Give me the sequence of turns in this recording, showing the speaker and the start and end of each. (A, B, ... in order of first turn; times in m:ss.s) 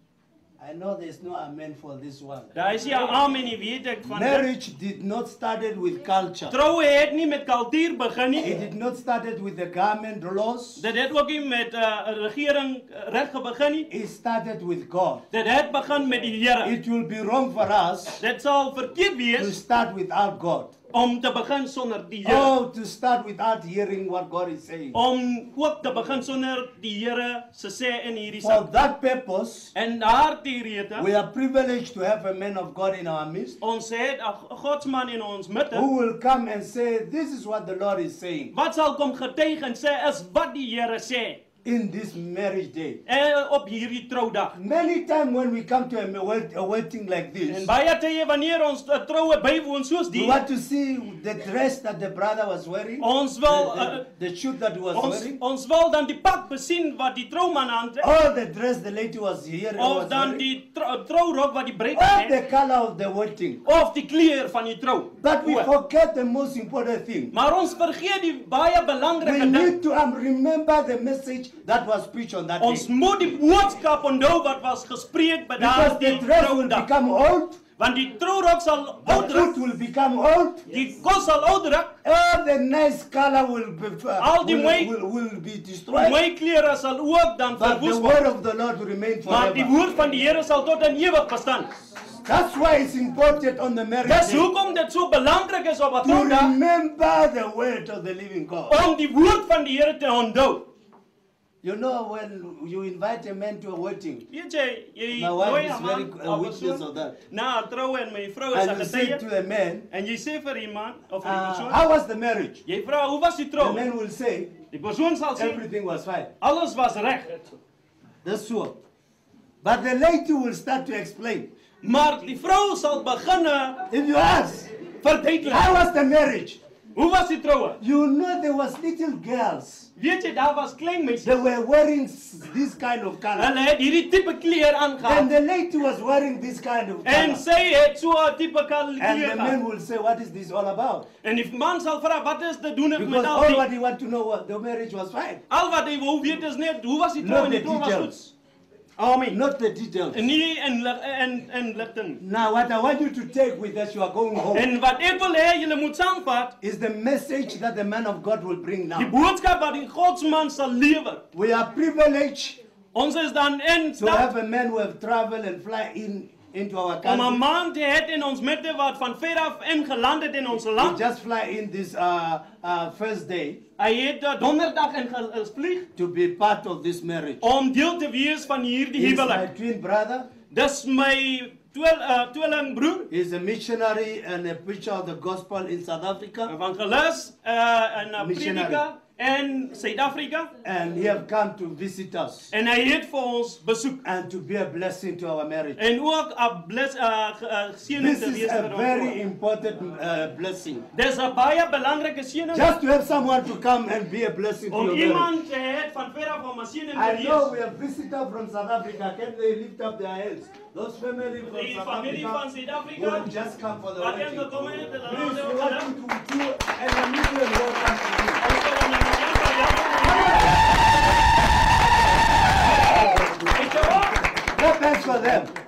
0:00.6-0:03.2 A
0:02.5-0:04.4 B
0:04.1-0:06.6 A
0:06.5-0:08.6 B
0:08.3-0:10.8 A
0:10.8-0:13.9 B
0:13.9-0:15.2 A
0:15.3-0:16.8 B
0:16.6-0:18.2 A
0:18.2-0:19.6 B
0:19.4-0:20.7 A
0:20.9-0:22.5 B
0:22.2-0:25.0 A
0:24.9-0:28.7 B
0:28.4-0:29.7 A
0:29.7-0:31.1 B
0:31.0-0:33.6 A
0:33.6-0:35.9 B
0:35.7-0:38.5 A
0:38.5-0:41.4 B
0:41.6-0:43.0 A
0:43.1-0:44.5 B
0:44.5-0:47.7 A
0:47.5-0:50.4 B
0:50.1-0:55.4 A
0:53.0-0:54.0 B
0:54.9-0:58.1 B
0:58.0-1:00.4 A
0:59.8-1:02.3 B
1:01.9-1:03.7 A
1:03.6-1:05.7 B
1:05.2-1:07.3 A
1:07.3-1:09.7 B
1:09.2-1:12.9 A
1:12.6-1:16.9 B
1:15.6-1:17.6 A
1:17.8-1:19.6 B
1:19.0-1:20.8 A
1:20.7-1:21.9 B
1:22.0-1:26.2 A
1:24.2-1:24.9 B
1:25.9-1:28.2 B
1:27.5-1:29.8 A
1:29.3-1:31.7 B
1:32.2-1:34.5 A
1:34.0-1:36.5 B
1:36.0-1:38.9 A
1:38.7-1:40.7 B
1:41.6-1:44.2 A
1:44.3-1:49.2 B
1:45.1-1:47.1 A
1:48.5-1:49.9 A
1:49.9-1:51.8 B
1:51.2-1:52.6 A
1:52.6-1:53.8 B
1:53.6-1:54.6 A
1:54.7-1:55.6 B
1:55.3-1:56.3 A
1:56.4-1:57.6 B
1:58.2-1:58.8 A
1:59.6-2:01.5 A
2:01.8-2:03.8 B
2:03.9-2:06.6 A
2:05.0-2:05.7 B
2:07.0-2:07.8 B
2:07.8-2:09.9 A
2:10.0-2:11.3 B
2:11.2-2:13.5 A
2:13.4-2:15.3 B
2:15.0-2:17.4 A
2:17.0-2:19.6 B
2:19.0-2:21.1 A
2:21.2-2:23.6 B
2:23.0-2:25.4 A
2:25.5-2:28.1 B
2:27.2-2:28.3 A
2:29.0-2:29.4 B
2:29.3-2:30.3 A
2:30.1-2:32.2 B
2:32.2-2:34.7 A
2:34.5-2:36.5 B
2:36.6-2:39.1 A
2:38.9-2:41.2 B
2:41.3-2:42.6 A
2:42.9-2:44.3 B
2:44.0-2:47.4 A
2:47.0-2:51.0 B
2:50.7-2:53.6 A
2:53.8-2:55.9 B
2:56.0-2:57.4 A
2:57.4-2:59.5 B
2:59.0-3:00.3 A
3:00.5-3:03.1 B
3:03.1-3:06.5 A
3:06.4-3:10.5 B
3:08.2-3:08.8 A
3:10.6-3:12.5 A
3:12.5-3:14.0 B
3:14.0-3:15.8 A
3:15.8-3:19.2 B
3:17.9-3:20.9 A
3:20.9-3:22.8 B
3:22.5-3:25.3 A
3:24.7-3:27.5 B
3:26.9-3:38.4 A
3:31.4-3:33.3 B
3:34.0-3:35.9 B
3:38.4-3:40.7 B
3:40.2-3:40.5 A
3:42.7-3:45.5 A
3:43.5-3:44.2 B